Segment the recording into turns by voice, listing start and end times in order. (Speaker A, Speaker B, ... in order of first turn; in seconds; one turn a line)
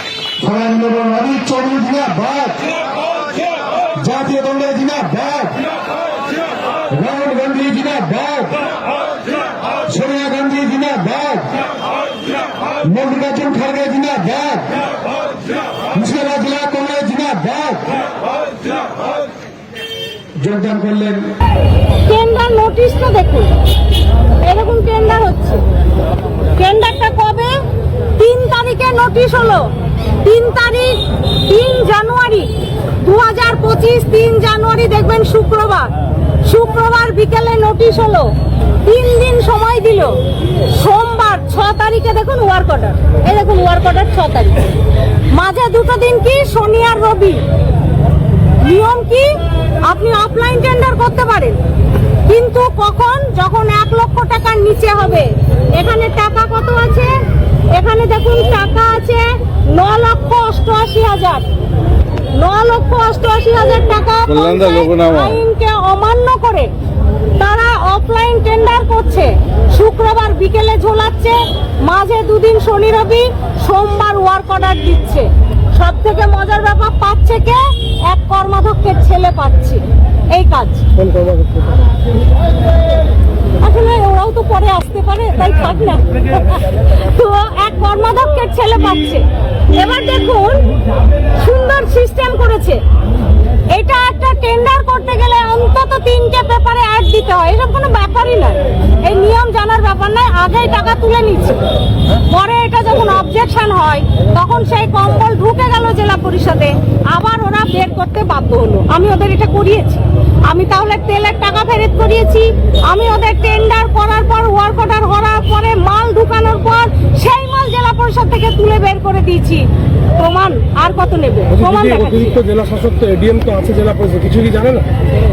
Speaker A: 0.4-2.6
Speaker A: 4.0-5.6
Speaker A: 6.9-8.6
Speaker A: 9.9-11.5
Speaker A: 12.8-14.7
Speaker A: 15.9-18.0
Speaker A: 20.4-21.3
Speaker B: 22.1-23.5
Speaker B: 24.4-25.6
Speaker B: 26.6-27.5
Speaker B: 28.2-29.6
Speaker B: 30.2-32.5
Speaker B: 33.0-35.9
Speaker B: 36.5-38.3
Speaker B: 38.8-44.8
Speaker B: 45.3-47.4
Speaker B: 48.6-49.3
Speaker B: 49.9-51.6
Speaker B: 52.3-57.1
Speaker B: 57.7-61.5
Speaker B: 62.4-66.7
Speaker C: 64.3-65.4
Speaker B: 67.4-80.9
Speaker C: 81.0-81.8
Speaker B: 83.6-89.2
Speaker B: 89.8-90.7
Speaker B: 91.4-92.8
Speaker B: 93.7-101.6
Speaker B: 102.3-119.7
Speaker B: 120.2-122.4
Speaker C: 122.3-124.9